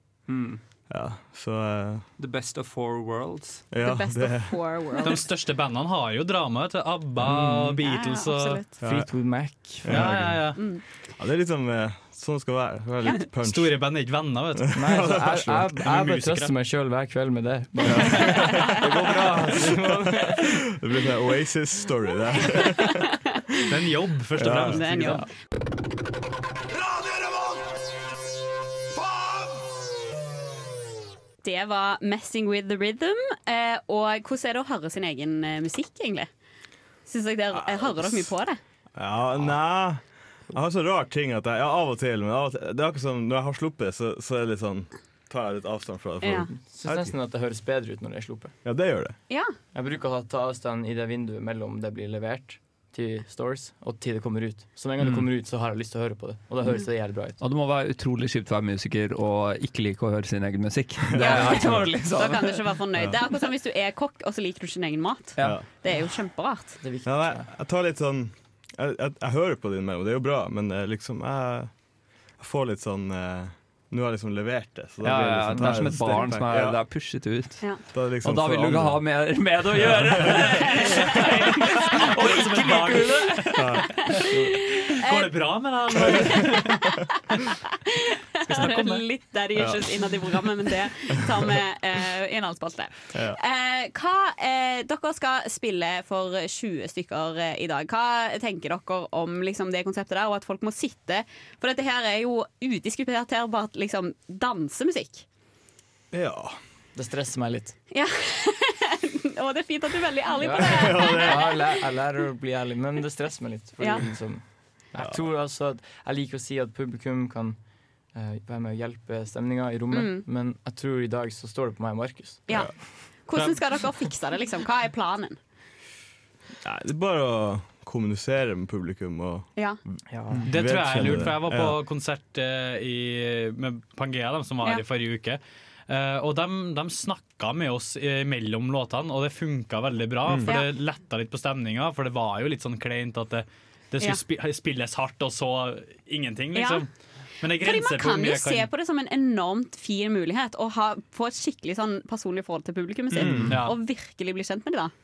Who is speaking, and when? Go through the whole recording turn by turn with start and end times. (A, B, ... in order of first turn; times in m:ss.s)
0:00.3-0:00.6 A
0:00.9-0:02.0 B
0:02.2-0:03.6 A
0:03.7-0:04.7 B
0:03.8-0:05.2 C
0:05.0-0:08.6 D
0:07.2-0:07.8 E
0:07.8-0:08.8 C
0:08.8-0:10.1 E
0:08.8-0:10.6 B
0:09.8-0:10.6 D
0:10.5-0:10.8 C
0:11.2-0:13.8 B
0:13.4-0:14.8 D
0:14.6-0:16.0 B
0:14.7-0:20.5 E
0:15.8-0:16.5 D
0:17.8-0:23.1 B
0:22.5-0:23.6 C
0:23.7-0:25.2 D
0:24.4-0:25.0 B
0:24.6-0:25.2 C
0:24.9-0:25.2 E
0:31.4-0:36.3 C
0:37.1-0:38.6 C
0:37.5-0:38.3 B
0:39.0-0:47.2 B
0:46.2-0:46.5 C
0:46.4-0:48.5 E
0:48.6-0:49.2 B
0:49.3-0:49.5 C
0:49.7-0:57.4 E
0:57.4-1:02.8 A
1:01.1-1:01.9 B
1:01.2-1:06.8 C
1:02.9-1:03.2 B
1:05.4-1:05.7 B
1:06.8-1:07.5 E
1:07.0-1:11.7 B
1:12.4-1:16.8 B
1:15.0-1:23.7 A
1:15.5-1:16.2 E
1:17.8-1:19.2 B
1:19.8-1:20.4 B
1:20.6-1:21.3 D
1:20.8-1:22.1 C
1:21.9-1:24.2 D
1:23.5-1:24.0 B
1:23.9-1:25.3 C
1:24.3-1:24.6 E
1:24.9-1:26.8 D
1:26.0-1:26.6 B
1:26.4-1:45.2 C
1:28.5-1:29.0 D
1:29.5-1:30.5 B
1:31.1-1:31.6 B
1:33.1-1:33.4 B
1:46.1-1:46.6 B
1:46.9-1:47.8 E
1:47.9-1:51.7 C
1:50.4-1:57.6 E
1:50.5-1:51.7 B
1:53.8-1:54.1 C
1:55.0-1:55.2 B
1:58.1-2:02.6 E
1:59.9-2:00.2 C
2:02.5-2:02.7 B
2:02.5-2:05.4 C
2:06.6-2:11.8 B
2:10.1-2:10.5 E
2:10.4-2:26.9 D
2:20.3-2:20.6 B
2:26.5-2:26.8 C
2:27.4-2:28.7 D
2:27.6-2:34.9 C
2:33.1-2:33.6 B
2:33.5-2:33.8 D